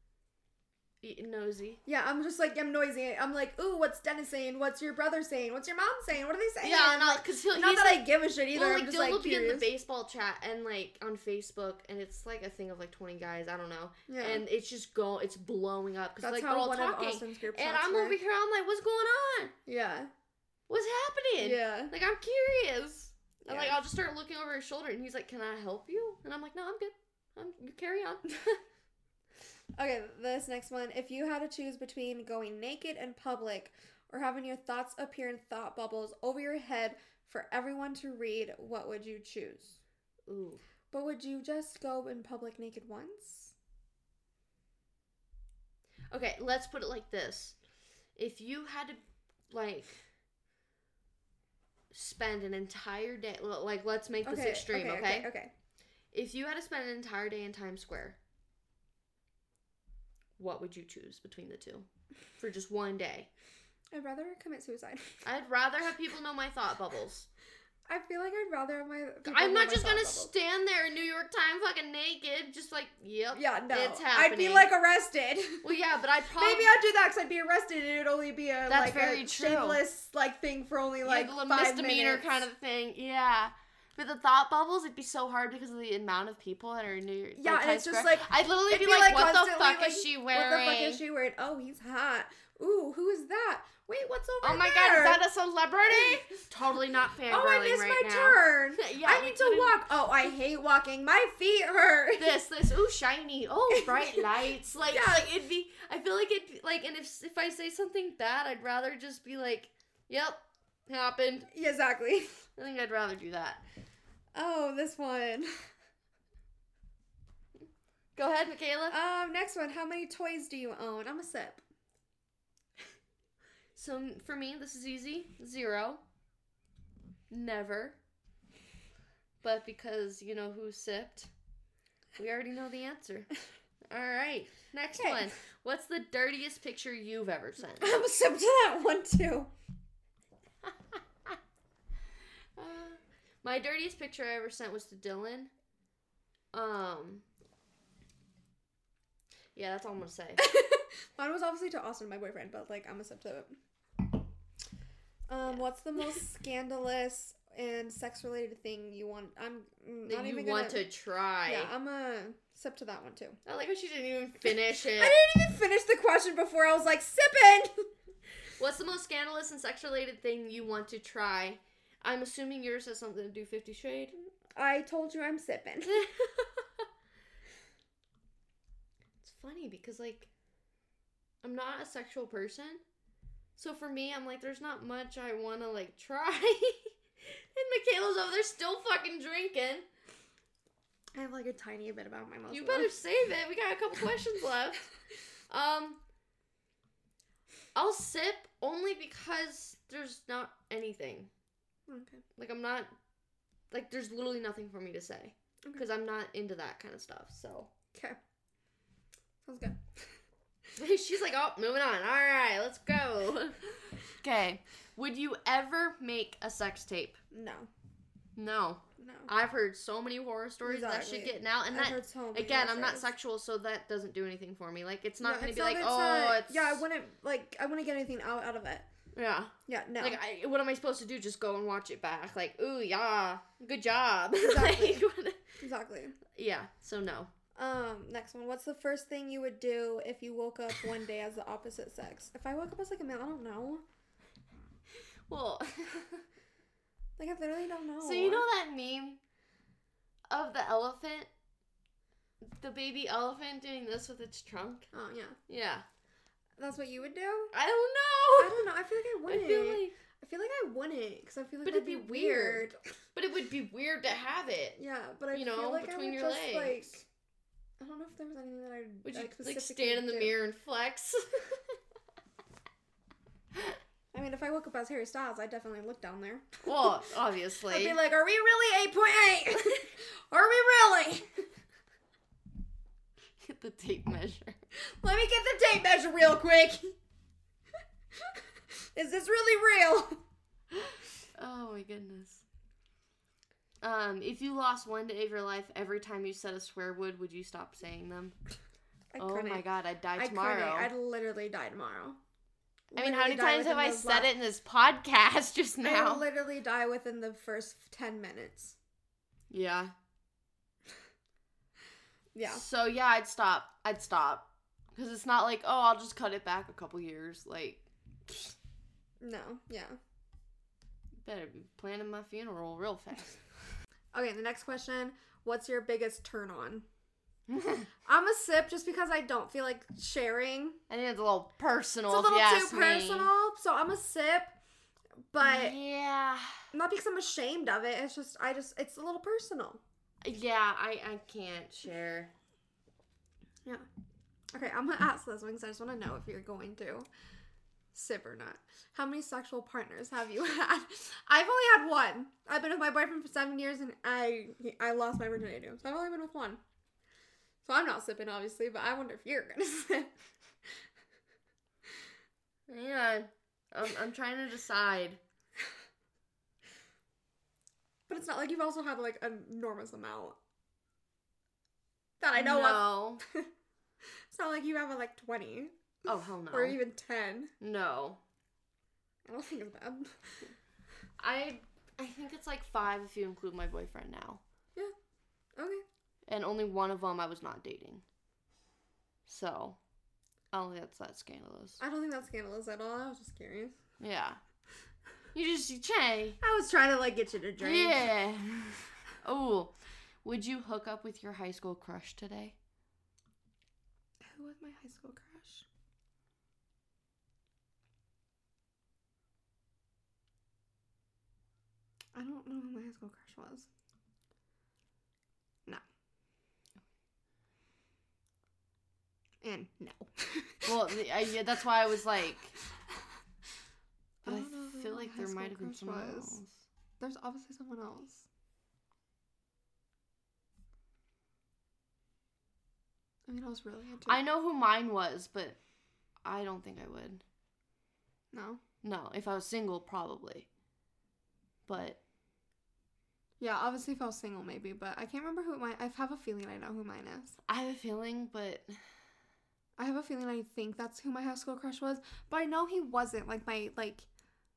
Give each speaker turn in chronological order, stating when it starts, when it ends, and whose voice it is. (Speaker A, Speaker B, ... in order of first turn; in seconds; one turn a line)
Speaker A: 1.0-1.8
Speaker B: 1.9-9.7
Speaker A: 6.6-19.5
Speaker B: 14.1-14.4
Speaker B: 16.2-18.2
Speaker B: 19.7-20.1
Speaker A: 20.7-28.3
Speaker B: 21.4-21.9
Speaker B: 23.4-23.8
Speaker B: 29.8-39.8
Speaker A: 40.3-40.6
Speaker B: 40.9-43.5
Speaker A: 46.1-47.6
Speaker A: 48.2-50.0
Speaker A: 51.9-55.3
Speaker B: 54.2-55.5
Speaker A: 56.1-58.2
Speaker A: 60.4-61.9
Speaker A: 62.4-63.3
Speaker B: 63.9-65.2
Speaker A: 65.2-67.3
Speaker B: 67.9-70.3
Speaker A: 69.3-74.7
Speaker B: 73.3-75.7
Speaker A: 75.6-76.8
Speaker B: 76.3-82.4
Speaker A: 78.7-79.8
Speaker A: 81.0-91.0
Speaker B: 87.4-95.2
Speaker A: 94.4-99.9
Speaker B: 97.3-102.4
Speaker A: 102.2-111.5
Speaker B: 103.8-104.2
Speaker B: 104.9-105.2
Speaker B: 111.5-112.4
Speaker A: 112.6-113.6
Speaker B: 114.3-115.5
Speaker A: 118.2-119.0
Speaker B: 118.9-121.6
Speaker A: 123.8-126.0
Speaker A: 127.3-128.0
Speaker A: 129.4-131.3
Speaker A: 132.2-133.3
Speaker A: 133.9-137.9
Speaker B: 135.0-135.3
Speaker B: 137.8-139.5
Speaker A: 142.6-145.5
Speaker A: 146.5-147.2
Speaker A: 149.6-150.4
Speaker B: 150.4-153.6
Speaker B: 155.3-160.9
Speaker A: 160.1-161.7
Speaker B: 161.5-163.4
Speaker A: 163.4-165.2
Speaker B: 164.8-167.9
Speaker A: 168.6-174.2
Speaker B: 174.6-176.4
Speaker A: 179.2-180.3
Speaker A: 181.4-182.8
Speaker A: 183.6-189.9
Speaker B: 191.2-192.9
Speaker A: 192.5-194.9
Speaker A: 195.5-196.0
Speaker A: 197.8-201.3
Speaker B: 201.9-202.2
Speaker A: 202.4-202.9
Speaker A: 203.7-207.7
Speaker B: 209.4-209.8
Speaker A: 210.8-217.2
Speaker B: 217.3-217.7
Speaker A: 218.4-226.8
Speaker B: 219.0-219.3
Speaker B: 220.6-223.1
Speaker B: 225.2-228.8
Speaker A: 229.1-235.4
Speaker B: 229.7-230.2
Speaker B: 234.4-235.0
Speaker B: 235.6-236.2
Speaker A: 236.3-237.3
Speaker B: 237.6-243.8
Speaker A: 245.3-246.2
Speaker B: 247.2-248.5
Speaker A: 248.0-249.2
Speaker A: 250.3-251.3
Speaker A: 252.4-254.9
Speaker B: 254.9-255.4
Speaker A: 255.5-255.8
Speaker B: 256.6-257.5
Speaker A: 257.5-258.7
Speaker B: 258.4-262.8
Speaker A: 259.3-259.9
Speaker A: 261.6-264.8
Speaker B: 264.8-267.1
Speaker A: 265.3-267.0
Speaker B: 267.8-270.4
Speaker A: 269.1-271.8
Speaker B: 274.1-276.7
Speaker A: 276.6-278.0
Speaker B: 277.7-281.4
Speaker A: 283.4-284.6
Speaker B: 285.0-287.0
Speaker B: 288.9-290.2
Speaker A: 290.8-292.4
Speaker A: 293.8-298.4
Speaker B: 299.1-299.6
Speaker A: 299.2-300.9
Speaker B: 300.2-302.2
Speaker B: 302.9-304.3
Speaker A: 302.9-306.3
Speaker B: 305.8-308.8
Speaker A: 309.5-309.9
Speaker B: 312.4-312.6
Speaker A: 312.5-318.6
Speaker B: 319.2-320.0
Speaker A: 321.2-323.4
Speaker B: 324.1-326.9
Speaker A: 327.5-327.9
Speaker B: 328.1-330.8
Speaker A: 330.9-333.3
Speaker B: 332.1-334.6
Speaker B: 335.3-335.8
Speaker A: 335.4-336.6
Speaker B: 336.7-339.8
Speaker A: 340.2-342.3
Speaker B: 344.5-347.1
Speaker B: 347.9-356.6
Speaker B: 357.6-360.1
Speaker A: 362.7-365.2
Speaker B: 368.1-370.4
Speaker B: 372.2-373.5
Speaker A: 372.4-373.2
Speaker B: 374.3-375.7
Speaker A: 376.1-376.8
Speaker B: 376.5-377.5
Speaker A: 377.6-378.2
Speaker B: 379.3-380.5
Speaker A: 381.2-384.4
Speaker B: 385.6-385.8
Speaker A: 386.3-388.0
Speaker A: 389.3-389.8
Speaker A: 390.5-391.8
Speaker B: 391.8-393.8
Speaker A: 394.0-394.4
Speaker A: 395.3-396.4
Speaker B: 396.4-398.1
Speaker A: 397.6-402.6
Speaker B: 404.2-405.6
Speaker B: 412.1-413.7
Speaker B: 419.4-420.8
Speaker A: 420.7-422.5
Speaker B: 424.2-426.4
Speaker A: 424.2-426.6
Speaker B: 427.0-428.3
Speaker B: 433.3-434.2
Speaker A: 434.1-435.6
Speaker A: 436.2-437.2
Speaker B: 438.3-438.6
Speaker A: 438.8-440.5
Speaker A: 441.7-442.0
Speaker B: 443.4-447.4
Speaker A: 447.5-448.8
Speaker B: 449.8-454.1